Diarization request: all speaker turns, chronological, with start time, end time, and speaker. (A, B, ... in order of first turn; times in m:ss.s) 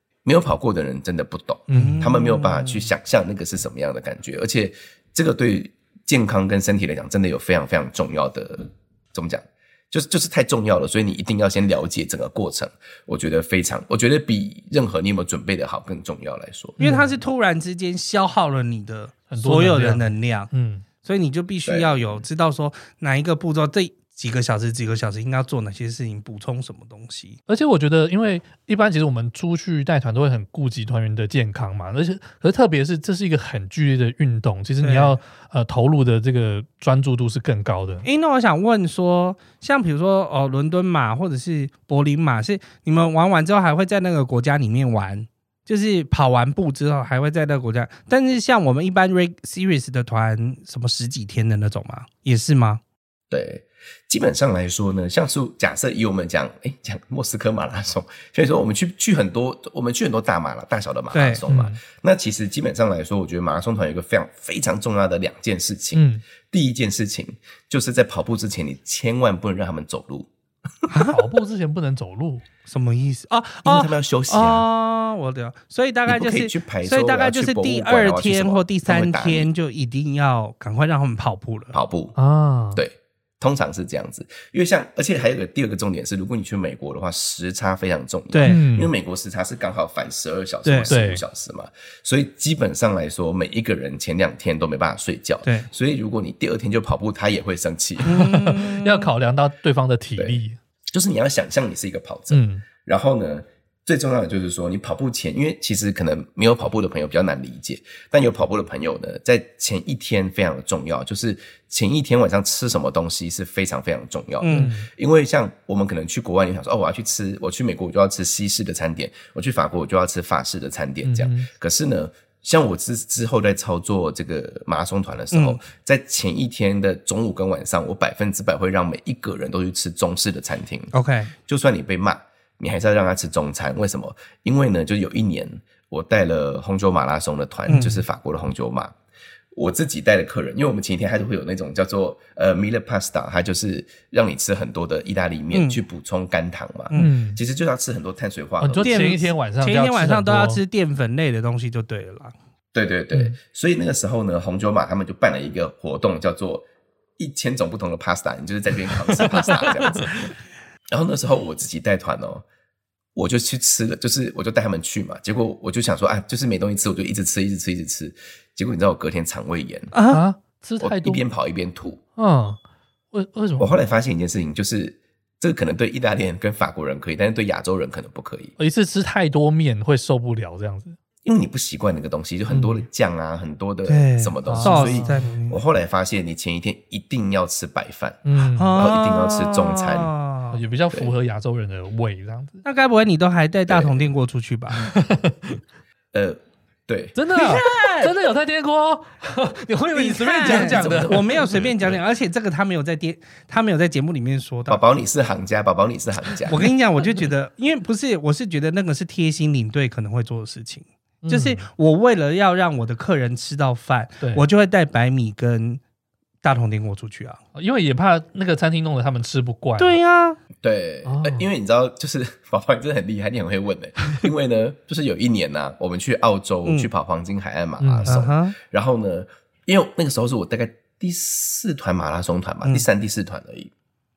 0:00.2-0:16.8 A
0:01.7-0:02.0 B
0:01.7-0:02.9 C
0:16.8-0:17.2 B
0:16.8-0:20.5 C
0:19.3-0:20.8 B
0:21.0-0:27.4 C
0:21.6-0:22.2 A
0:27.5-0:38.0 B
0:34.8-0:35.2 C
0:38.0-0:52.8 C
0:53.3-1:10.3 A
1:01.1-1:01.4 C
1:01.5-1:01.8 B
1:05.9-1:06.2 B
1:10.9-1:11.2 C
1:11.1-1:12.4 B
1:12.6-1:21.8 C
1:13.6-1:14.6 A
1:16.1-1:19.5 A
1:21.7-1:22.2 A
1:22.2-1:22.8 B
1:22.7-1:38.2 A
1:28.3-1:28.6 C
1:28.4-1:28.9 B
1:30.6-1:30.9 C
1:30.9-1:31.2 B
1:35.4-1:35.7 C
1:38.0-1:39.1 C
1:38.0-1:40.6 B
1:40.2-2:10.9 A
1:42.3-1:42.6 B
1:54.4-1:54.7 C
1:54.5-1:54.9 B
2:01.0-2:01.5 B
2:05.3-2:05.6 C
2:10.9-2:11.3 C
2:11.4-2:18.9 A
2:17.7-2:18.0 C
2:19.5-2:29.2 A
2:25.5-2:25.8 C
2:26.9-2:27.4 B
2:28.6-2:30.6 B
2:28.8-2:32.3 C
2:32.7-2:36.7 A
2:37.2-2:40.3 A
2:40.9-2:42.4 A
2:43.1-2:49.9 A
2:49.9-2:50.2 C
2:50.1-2:51.2 B
2:50.8-2:52.0 A
2:52.2-2:52.6 B
2:53.1-2:53.7 B
2:53.6-2:58.5 A
2:58.6-3:01.0 B
3:01.2-3:10.1 A
3:02.5-3:02.8 B
3:03.9-3:05.6 C
3:04.4-3:05.3 B
3:08.2-3:08.8 B
3:08.5-3:10.6 C
3:10.5-3:12.6 B
3:12.6-3:14.9 C
3:13.7-3:14.0 A
3:14.7-3:15.6 B
3:16.1-3:17.2 A
3:17.2-3:21.5 B
3:17.3-3:18.1 C
3:19.9-3:24.8 C
3:20.4-3:22.0 A
3:24.7-3:26.7 A
3:26.5-3:35.8 C
3:31.2-3:31.6 B
3:36.4-3:37.4 C
3:37.5-3:40.0 B
3:39.8-3:40.4 C
3:40.6-3:53.7 A
3:41.0-3:41.4 B
3:47.8-3:48.2 B
3:48.1-3:48.6 C